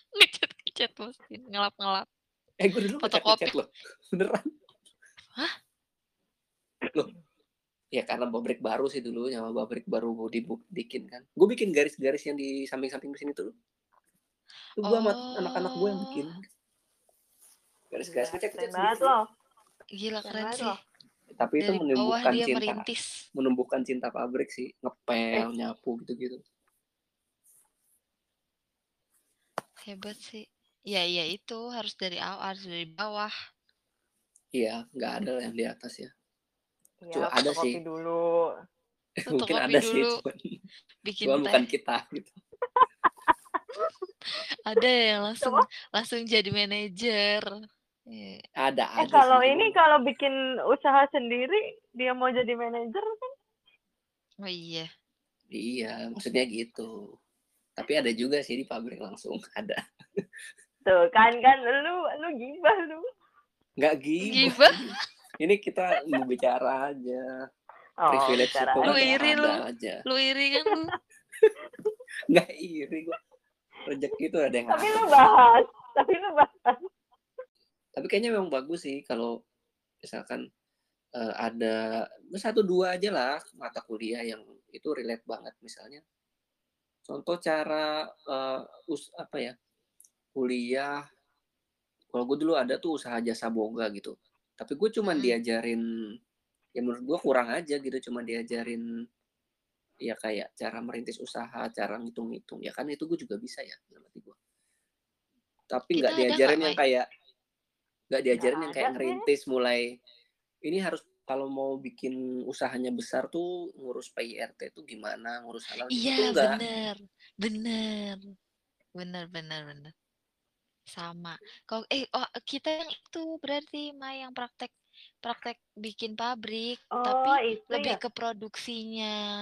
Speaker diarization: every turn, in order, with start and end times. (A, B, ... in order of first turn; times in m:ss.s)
0:00.1-0:02.1 A
0:02.6-0:04.5 B
0:03.0-0:03.5 A
0:07.9-0:13.5 B
0:14.8-0:16.4 B
0:14.8-0:16.0 A
0:17.9-0:19.1 B
0:18.0-0:19.2 C
0:20.0-0:20.7 A
0:20.2-0:20.8 C
0:21.3-0:26.4 B
0:21.6-0:23.1 A
0:29.8-0:33.3 A
0:34.6-0:36.1 B
0:37.0-0:38.4 C
0:37.1-0:37.8 B
0:39.3-0:40.2 A
0:39.3-0:40.4 B
0:41.0-0:41.6 A
0:41.2-0:42.4 B
0:42.8-0:43.3 C
0:44.6-0:47.4 A
0:48.1-0:48.4 A
0:48.6-0:49.7 B
0:49.0-0:53.0 C
0:54.4-0:54.9 A
0:55.5-0:57.0 B
0:57.8-1:00.2 B
1:00.8-1:03.0 C
1:03.8-1:07.2 B
1:04.3-1:04.6 C
1:04.3-1:04.8 A
1:08.0-1:09.2 C
1:08.1-1:10.0 B
1:08.8-1:10.9 A
1:12.3-1:13.2 B
1:13.8-1:15.0 B
1:14.7-1:16.8 C
1:18.0-1:19.3 B
1:20.0-1:20.4 B
1:21.2-1:21.8 B
1:22.3-1:26.0 B
1:27.1-1:29.5 B
1:30.4-1:31.0 B
1:32.1-1:35.8 B
1:35.0-1:35.4 A
1:36.8-1:38.8 B
1:40.0-1:44.4 B
1:45.7-1:47.0 B
1:46.0-1:46.8 A
1:48.1-1:49.9 B
1:48.4-1:49.2 C
1:50.6-1:56.6 B
1:55.9-1:58.2 A
1:59.0-1:59.9 A
2:00.9-2:04.7 A
2:05.2-2:09.1 A
2:06.9-2:08.0 C